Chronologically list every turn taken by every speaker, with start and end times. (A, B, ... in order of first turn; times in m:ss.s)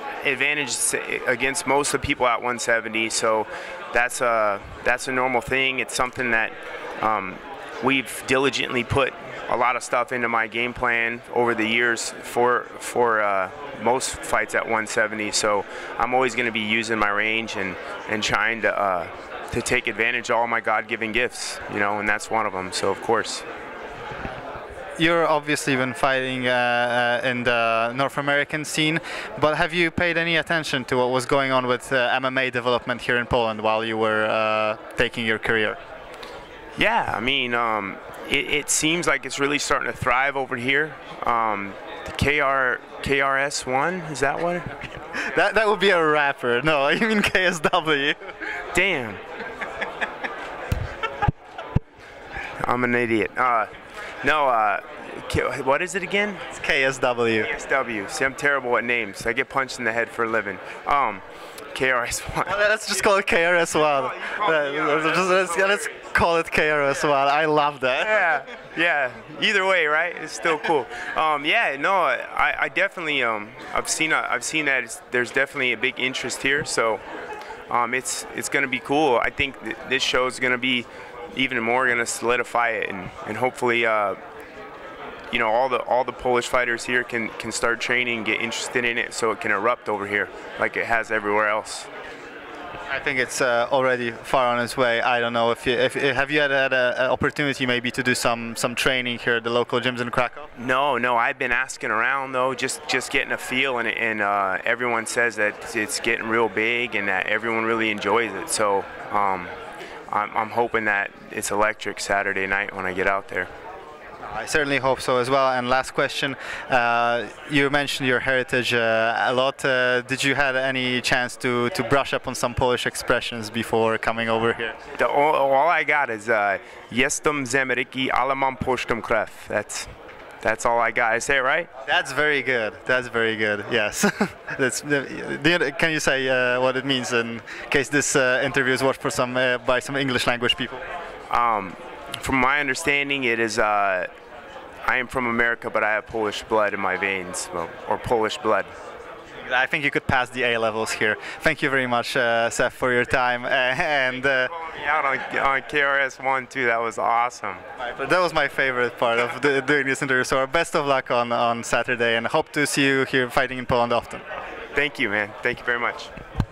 0:00.2-0:23.4 A
0:25.0-0:35.8 B
0:36.8-0:44.8 A
0:45.1-0:48.2 B
0:48.7-0:49.2 A
0:52.6-0:53.7 A
0:54.2-0:56.5 A
0:56.5-0:57.5 B
0:57.4-1:02.6 A
1:02.5-1:08.4 B
1:04.0-1:05.8 A
1:08.0-1:17.0 A
1:17.7-1:24.2 A
1:25.3-1:31.9 A
1:32.9-1:40.5 B
1:40.6-1:49.5 A
1:50.1-1:53.5 A
1:54.2-2:04.8 B
2:05.0-2:11.7 A
2:11.9-2:20.8 B
2:21.3-2:24.1 A
2:24.8-2:28.7 A
2:29.4-2:34.5 B
2:34.2-2:37.6 A
2:37.8-2:44.2 B
2:44.7-2:46.1 A